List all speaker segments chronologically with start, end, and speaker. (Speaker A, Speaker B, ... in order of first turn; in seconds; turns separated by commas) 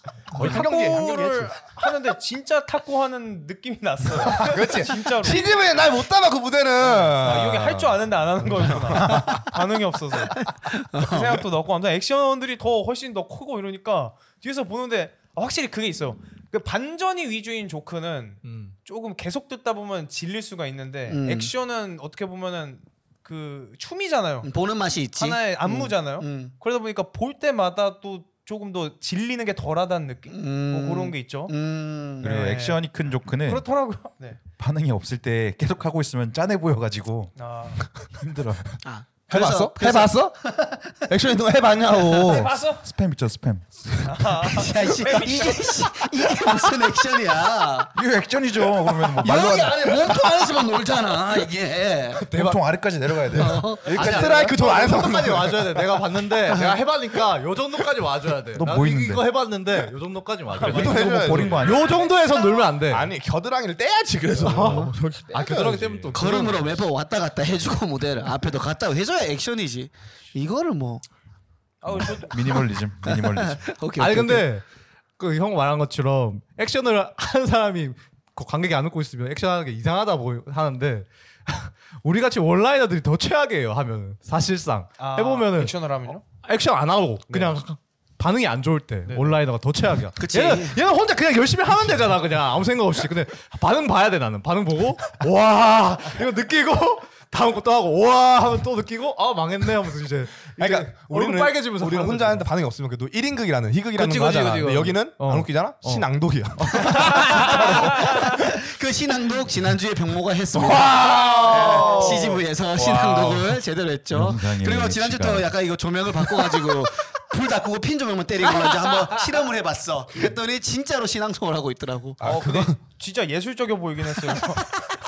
Speaker A: 0.3-1.5, Speaker B: 0.3-5.5, Speaker C: 0.4-0.6, Speaker A: 4.2-9.3, Speaker B: 6.8-24.5, Speaker D: 10.5-11.4, Speaker C: 18.4-18.7, Speaker D: 21.1-21.5, Speaker D: 24.4-26.5, Speaker B: 25.1-31.5, Speaker D: 30.3-32.3, Speaker B: 32.2-32.8, Speaker E: 32.2-33.6, Speaker B: 33.4-34.4, Speaker E: 34.6-37.3, Speaker B: 37.4-37.9, Speaker E: 38.0-38.7, Speaker D: 38.8-41.0, Speaker A: 39.3-40.5, Speaker A: 41.1-42.5, Speaker B: 42.2-42.8, Speaker E: 42.6-44.0, Speaker B: 44.0-46.0, Speaker D: 44.4-47.9, Speaker E: 47.9-49.9, Speaker D: 49.2-52.3, Speaker C: 49.3-50.4, Speaker E: 52.3-54.4, Speaker D: 53.3-54.5, Speaker C: 53.8-63.1, Speaker A: 53.8-56.0, Speaker D: 56.5-56.8, Speaker E: 58.5-59.2, Speaker B: 60.5-61.0, Speaker A: 60.6-61.9, Speaker E: 60.6-62.0, Speaker A: 62.9-66.5, Speaker C: 64.3-66.8, Speaker D: 66.1-71.0, Speaker B: 71.8-72.6, Speaker E: 71.9-73.6, Speaker D: 72.6-74.5, Speaker C: 74.0-74.6, Speaker C: 75.2-102.4, Speaker B: 85.0-86.2, Speaker B: 87.3-87.5, Speaker B: 89.0-89.3, Speaker D: 90.2-90.8, Speaker A: 100.5-108.3, Speaker C: 103.9-108.0, Speaker D: 106.9-122.2, Speaker A: 110.5-113.6, Speaker C: 111.2-112.4, Speaker E: 114.1-115.5, Speaker A: 122.2-122.8, Speaker B: 122.2-124.8